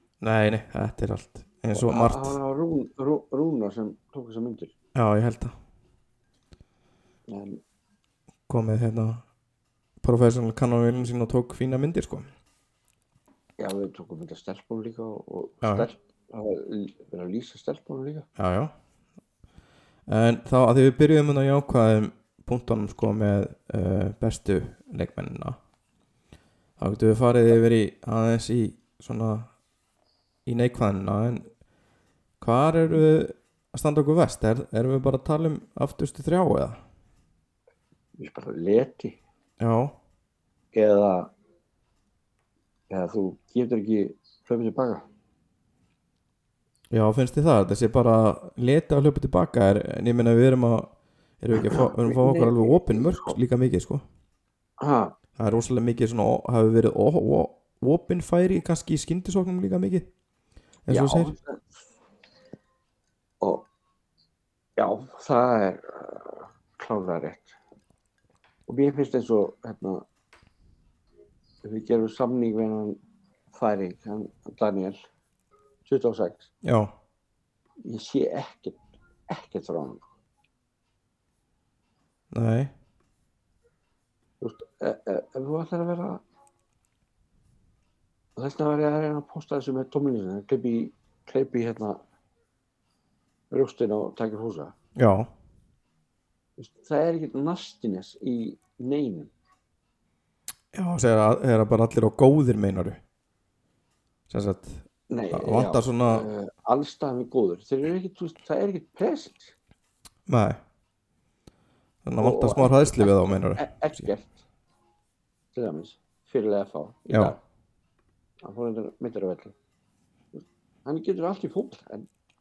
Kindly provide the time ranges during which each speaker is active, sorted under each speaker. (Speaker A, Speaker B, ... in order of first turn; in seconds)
Speaker A: 0.2-2.4, 4.9-5.5, 8.5-9.2, 10.0-12.3, 15.6-15.9, 18.4-18.7, 20.1-25.6, 26.8-29.5, 30.4-31.5, 32.4-36.8, 39.6-39.9, 46.9-54.0, 55.4-60.1, 60.9-61.3, 76.6-76.9, 82.3-82.7, 95.0-95.3, 100.7-103.0, 104.3-106.2, 110.3-110.6, 112.0-114.1, 117.1-117.4
Speaker B: 1.7-4.7, 7.3-7.6, 13.6-18.3, 38.2-39.2, 40.7-41.3, 42.9-45.0, 51.5-53.4, 54.8-55.1, 60.9-61.9, 63.4-63.6, 64.8-67.6, 68.7-70.0, 71.6-73.0, 73.5-75.0, 75.8-76.5, 77.8-80.1, 84.4-86.2, 88.3-92.0, 93.5-94.7, 96.6-99.3, 105.1-109.5, 112.2-114.4, 115.5-117.4, 118.4-119.5, 120.3-122.1